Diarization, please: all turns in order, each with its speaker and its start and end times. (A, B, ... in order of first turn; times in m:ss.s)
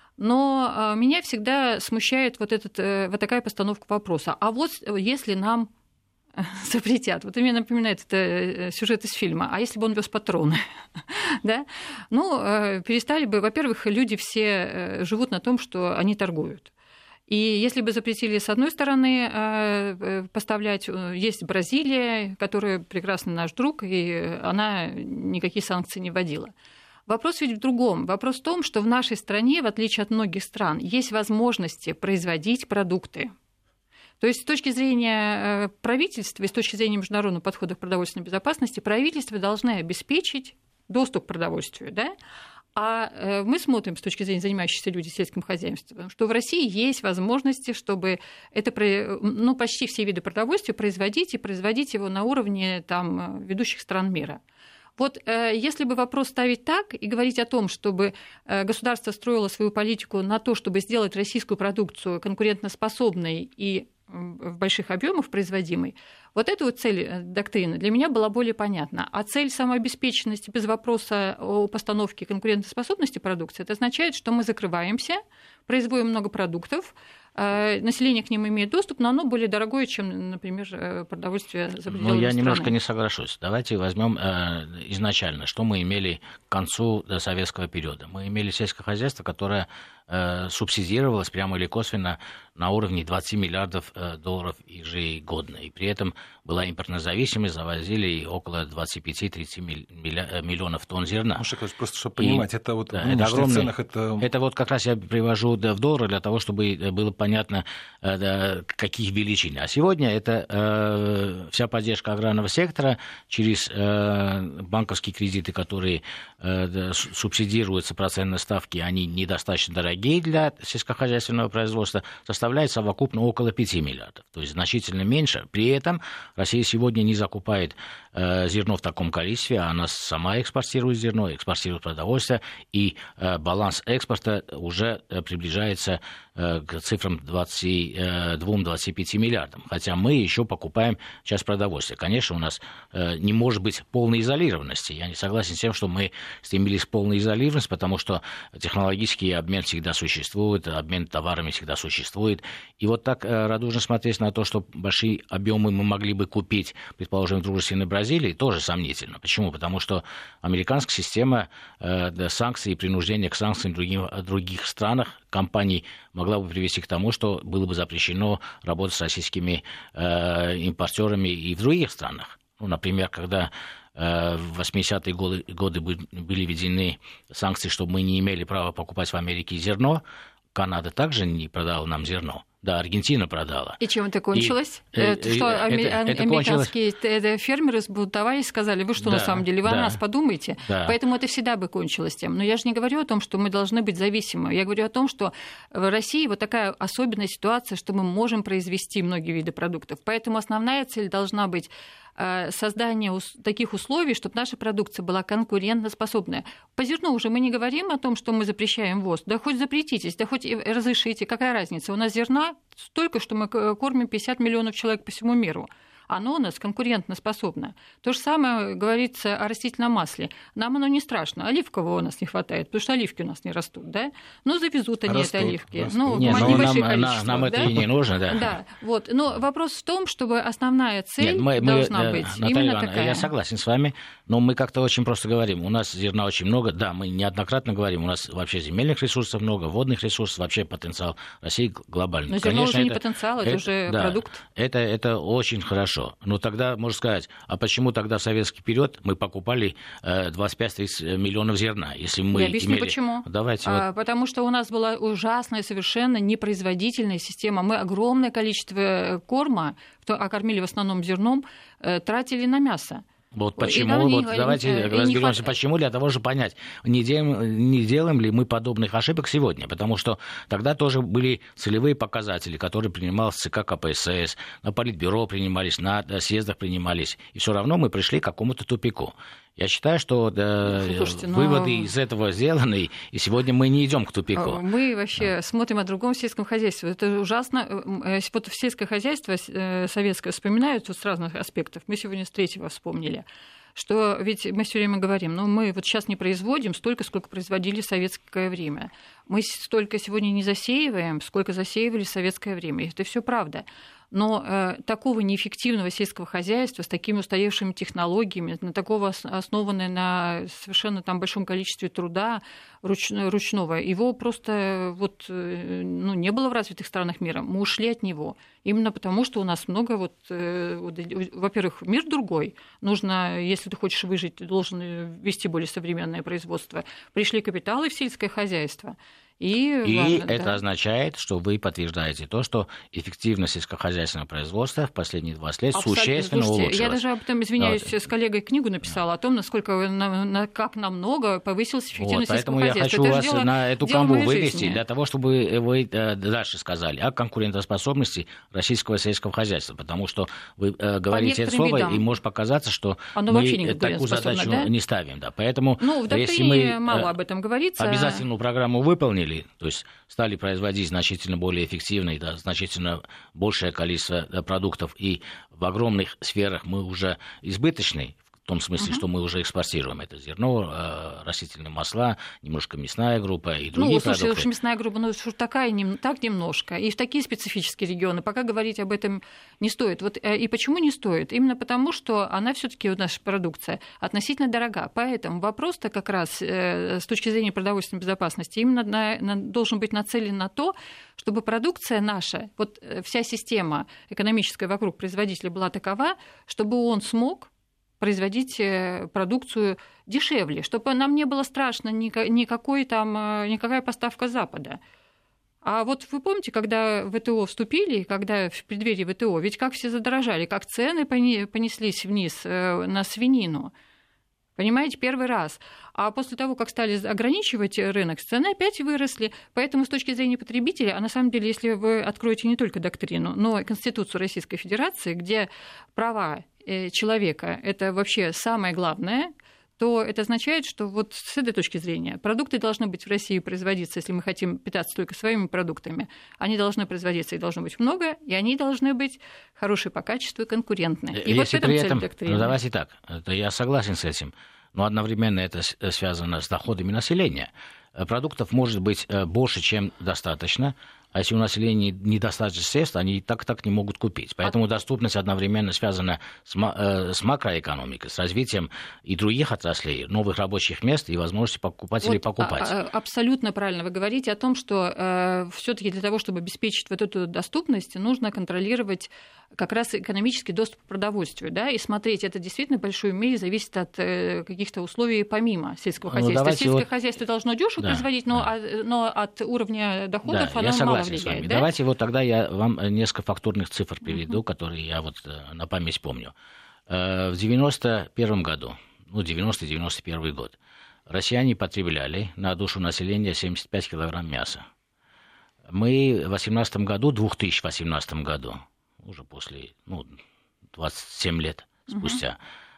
0:00.2-0:05.7 A
0:06.4-0:16.7 A
0:17.3-0:26.5 A
0:27.1-0:33.3 A
0:34.2-0:42.1 A
0:42.7-0:54.4 A
0:55.0-1:22.7 A
1:21.9-1:41.4 B
1:41.4-1:44.3 C
1:42.2-3:00.0 B
3:00.5-3:03.8 B
3:03.8-3:47.7 A
3:04.3-3:06.7 B
3:09.0-3:10.0 B
3:10.7-3:11.0 B
3:45.1-3:47.9 C
3:46.2-3:48.5 B
3:48.3-3:53.3 A
3:51.2-4:13.8 B
4:02.3-4:04.4 A
4:12.3-4:23.0 A
4:23.3-4:44.6 B
4:23.6-4:25.5 A
4:40.6-4:41.9 A
4:44.3-5:30.6 A
5:29.8-5:37.0 B
5:35.7-5:44.8 A
5:37.6-5:37.9 B
5:42.0-5:57.1 B
5:51.1-5:52.0 A
5:53.1-5:54.7 A
5:55.8-5:58.2 A
5:57.8-6:14.4 B
6:08.8-6:09.0 A
6:13.7-6:44.8 A
6:45.6-6:53.7 A
6:54.6-7:22.6 A
7:21.1-7:42.7 B
7:42.0-8:01.7 A
7:56.1-7:56.8 B
8:00.3-8:06.3 B
8:06.9-8:10.6 B
8:11.1-8:14.6 B
8:15.7-8:20.1 B
8:20.7-8:22.4 B
8:21.9-8:22.2 A